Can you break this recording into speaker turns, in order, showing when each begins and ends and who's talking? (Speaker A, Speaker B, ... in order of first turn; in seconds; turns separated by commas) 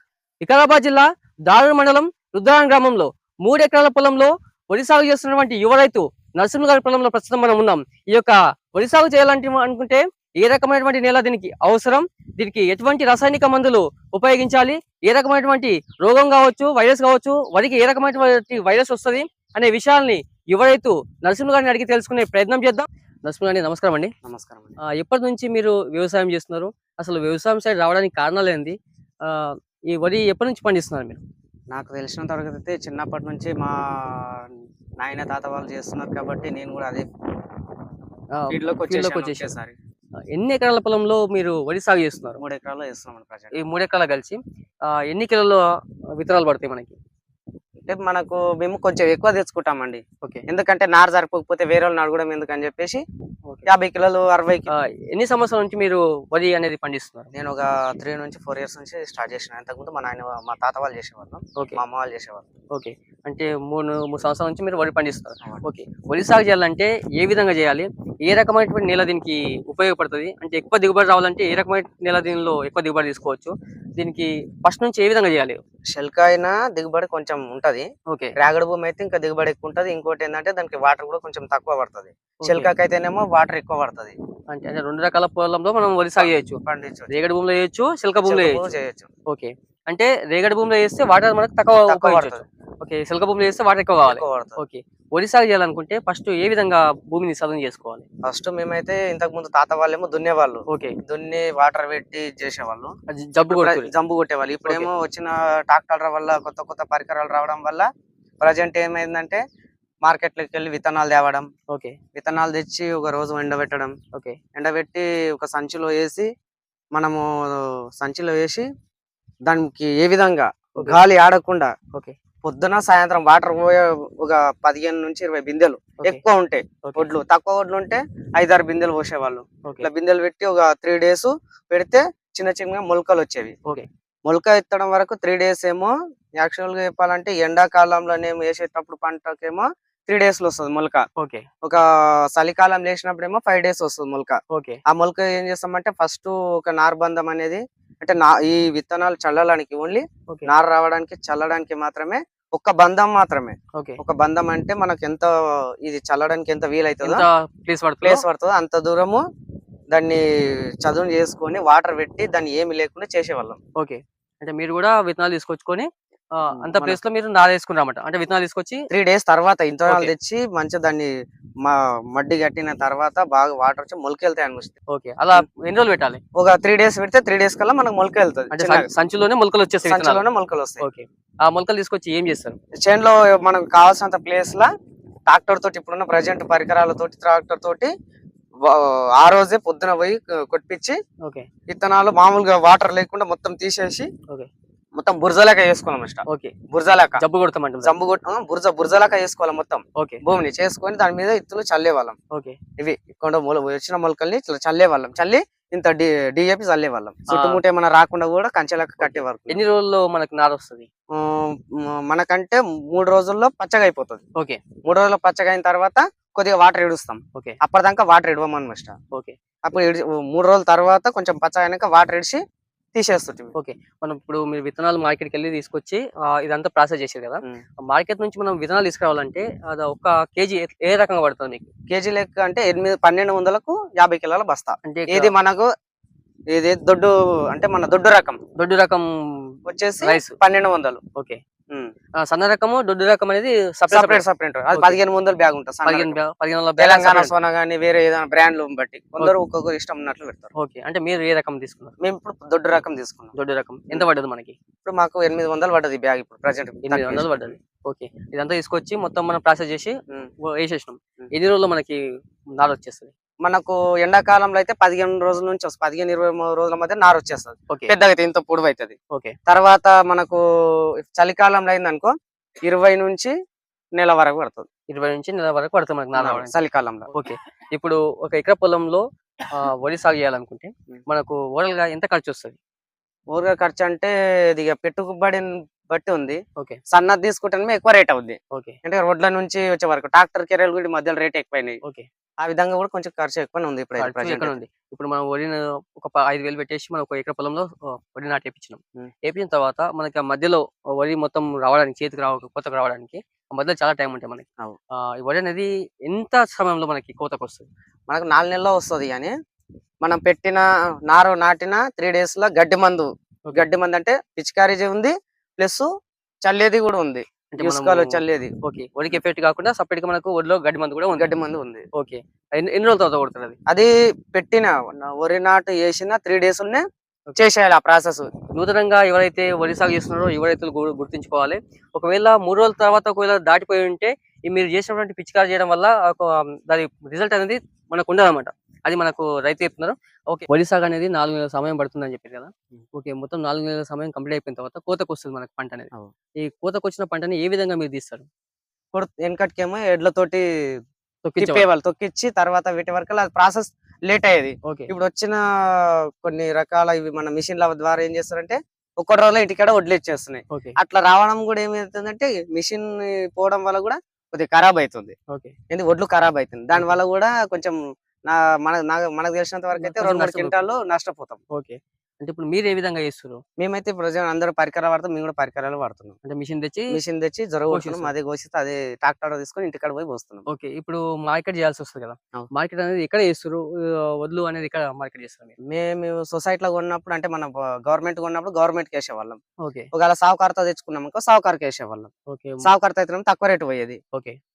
Speaker A: 0.4-24.1, Speaker B: 24.2-24.8, Speaker A: 24.9-31.2, Speaker B: 31.7-37.0, Speaker A: 38.3-39.5, Speaker B: 38.5-39.7, Speaker A: 40.3-42.4, Speaker B: 42.4-43.5, Speaker A: 43.5-45.6, Speaker A: 46.1-47.0, Speaker B: 47.8-53.0, Speaker B: 53.6-54.7, Speaker A: 54.7-57.3, Speaker B: 57.3-62.5, Speaker A: 62.7-75.6, Speaker B: 75.9-84.1, Speaker A: 78.1-78.3, Speaker A: 82.4-82.7, Speaker A: 84.5-88.6, Speaker B: 86.2-87.2, Speaker B: 88.2-89.1, Speaker A: 89.3-98.0, Speaker B: 91.8-92.4, Speaker B: 94.0-94.6, Speaker B: 98.2-107.9, Speaker A: 100.7-101.0, Speaker A: 103.1-103.9, Speaker A: 104.6-104.9, Speaker B: 108.4-109.4, Speaker B: 110.0-111.5, Speaker A: 111.7-112.0, Speaker B: 112.1-113.9, Speaker A: 114.1-114.4, Speaker B: 114.5-116.3, Speaker B: 116.9-118.7, Speaker B: 119.5-121.7, Speaker B: 122.4-133.6, Speaker A: 126.8-127.1, Speaker B: 134.2-141.0, Speaker A: 141.2-141.5, Speaker B: 141.6-157.2, Speaker A: 144.5-144.8, Speaker A: 157.0-158.2, Speaker B: 158.0-159.2, Speaker B: 159.9-163.6, Speaker A: 163.8-168.8, Speaker B: 166.5-167.0, Speaker B: 168.9-171.1, Speaker B: 171.6-174.7, Speaker A: 174.9-176.2, Speaker B: 176.3-178.9, Speaker A: 178.5-180.2, Speaker B: 179.8-180.8, Speaker A: 180.8-182.6, Speaker B: 182.8-184.7, Speaker B: 185.3-187.9, Speaker B: 188.6-191.0, Speaker A: 191.2-191.5, Speaker B: 191.7-194.1, Speaker B: 194.9-197.2, Speaker A: 196.3-196.6, Speaker A: 197.2-197.9, Speaker B: 197.8-202.2, Speaker A: 200.0-200.2, Speaker A: 202.3-202.6, Speaker B: 202.8-209.6, Speaker A: 207.3-207.6, Speaker A: 209.0-210.9, Speaker B: 211.1-214.2, Speaker A: 214.3-214.6, Speaker B: 214.8-218.9, Speaker A: 219.1-219.4, Speaker B: 219.6-222.4, Speaker B: 222.9-223.5, Speaker A: 223.5-231.7, Speaker B: 231.9-235.7, Speaker A: 234.8-235.3, Speaker B: 236.5-238.4, Speaker A: 238.6-240.3, Speaker B: 239.7-241.0, Speaker A: 242.2-245.0, Speaker B: 243.9-246.2, Speaker A: 245.8-247.4, Speaker B: 246.8-250.5, Speaker A: 250.6-251.9, Speaker B: 252.0-253.3, Speaker A: 253.3-254.6, Speaker B: 254.8-257.6, Speaker A: 256.9-262.0, Speaker A: 262.6-263.1, Speaker B: 263.4-268.9, Speaker B: 269.5-272.1, Speaker B: 272.6-273.3, Speaker B: 273.9-274.7, Speaker A: 274.9-276.5, Speaker B: 276.1-277.1, Speaker A: 277.1-282.6, Speaker B: 283.3-291.8, Speaker A: 288.5-288.8, Speaker B: 292.4-294.6, Speaker A: 294.0-304.5, Speaker A: 305.0-307.7, Speaker B: 308.1-309.3, Speaker B: 310.0-315.9, Speaker B: 316.4-318.5, Speaker A: 317.5-321.3, Speaker B: 321.2-321.9, Speaker A: 321.9-323.6, Speaker B: 323.7-326.8, Speaker B: 327.4-328.3, Speaker A: 328.5-348.3, Speaker B: 348.9-350.4, Speaker A: 351.2-351.6, Speaker B: 351.4-365.1, Speaker A: 354.6-354.9, Speaker A: 360.5-360.8, Speaker B: 365.7-371.4, Speaker A: 369.8-370.7, Speaker A: 371.5-373.4, Speaker B: 373.6-376.1, Speaker A: 376.2-377.0, Speaker B: 376.9-380.4, Speaker A: 377.7-378.1, Speaker A: 380.5-385.5, Speaker B: 385.7-389.4, Speaker A: 389.6-389.9, Speaker B: 389.9-392.1, Speaker A: 392.3-392.7, Speaker B: 392.6-394.0